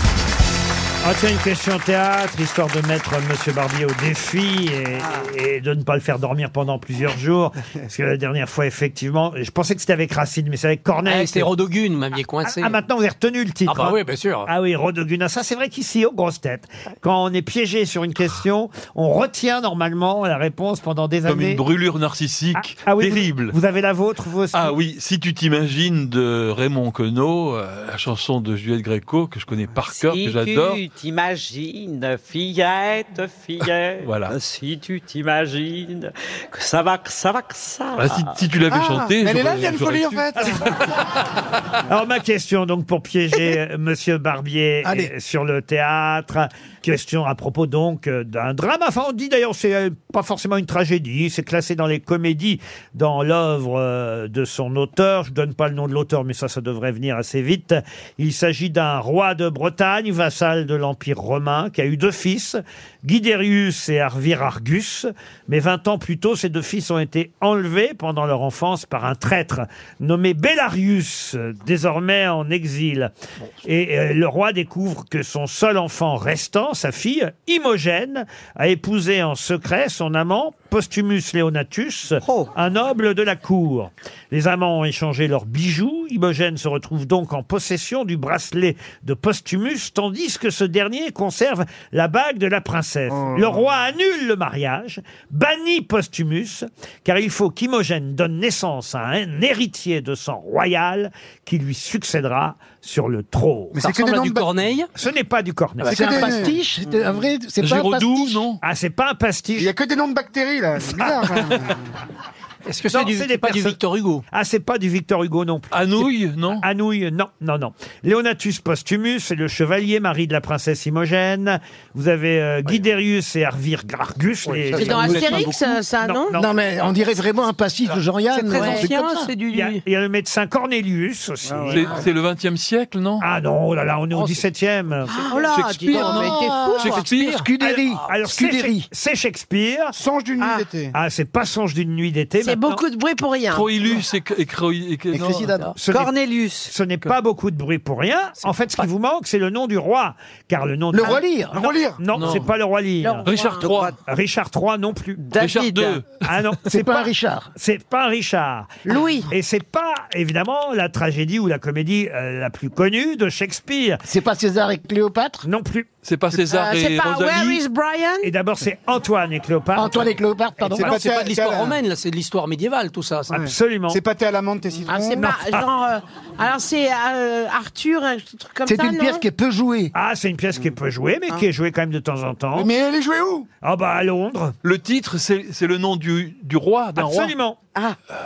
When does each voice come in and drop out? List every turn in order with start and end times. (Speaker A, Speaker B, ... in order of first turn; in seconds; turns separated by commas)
Speaker A: 1.0-11.5, Speaker B: 11.1-12.8, Speaker A: 12.4-21.6, Speaker B: 13.7-14.5, Speaker C: 21.3-23.6, Speaker A: 22.6-24.8, Speaker C: 24.5-30.8, Speaker D: 29.9-38.5, Speaker C: 34.0-34.3, Speaker C: 38.0-40.7, Speaker E: 38.7-40.6, Speaker A: 41.8-73.1, Speaker F: 44.8-45.1, Speaker A: 73.6-103.8, Speaker D: 82.2-82.5, Speaker E: 93.2-93.5, Speaker E: 103.7-104.5, Speaker B: 103.8-104.9, Speaker A: 105.0-106.5, Speaker F: 105.8-108.4, Speaker E: 105.9-106.5, Speaker D: 106.9-107.2, Speaker C: 107.6-108.6, Speaker A: 108.6-109.7, Speaker E: 109.6-111.9, Speaker B: 112.7-114.2, Speaker A: 112.9-113.8, Speaker A: 114.3-125.5, Speaker C: 115.7-116.6, Speaker B: 124.7-125.6, Speaker F: 124.7-125.5, Speaker G: 124.7-126.4, Speaker A: 126.0-126.4, Speaker F: 126.3-129.3, Speaker B: 128.3-129.8, Speaker G: 128.6-128.9, Speaker A: 129.5-131.9, Speaker C: 131.7-133.3, Speaker A: 133.2-135.2, Speaker B: 134.1-134.5, Speaker B: 135.1-135.5, Speaker G: 135.3-137.1, Speaker C: 135.4-137.5, Speaker F: 135.9-138.9, Speaker B: 137.0-138.1, Speaker A: 137.6-139.9, Speaker E: 139.9-140.9, Speaker D: 140.4-140.7, Speaker A: 140.9-142.8, Speaker G: 142.4-143.7, Speaker C: 143.5-145.5, Speaker F: 145.1-145.7, Speaker B: 145.5-145.7, Speaker A: 145.8-146.1, Speaker D: 145.9-146.7, Speaker A: 146.7-153.3, Speaker F: 150.9-151.7, Speaker E: 151.5-152.0, Speaker B: 152.1-152.5, Speaker G: 153.0-153.7, Speaker C: 153.3-153.9, Speaker D: 153.7-154.0, Speaker A: 154.0-155.3, Speaker D: 155.2-156.1, Speaker C: 155.3-156.2, Speaker A: 156.2-164.0, Speaker F: 156.7-157.5, Speaker G: 158.8-159.3, Speaker F: 164.1-165.4, Speaker A: 165.4-165.9, Speaker C: 166.0-167.6, Speaker G: 166.4-168.3, Speaker A: 168.2-170.1, Speaker F: 169.7-170.9, Speaker E: 170.7-171.8, Speaker B: 170.7-173.4, Speaker E: 173.3-175.3, Speaker A: 173.4-174.0, Speaker G: 174.9-179.3, Speaker A: 175.2-175.7, Speaker F: 178.7-179.9, Speaker A: 179.9-182.7, Speaker E: 182.5-183.4, Speaker A: 183.6-184.6, Speaker C: 184.6-187.3, Speaker A: 186.9-187.6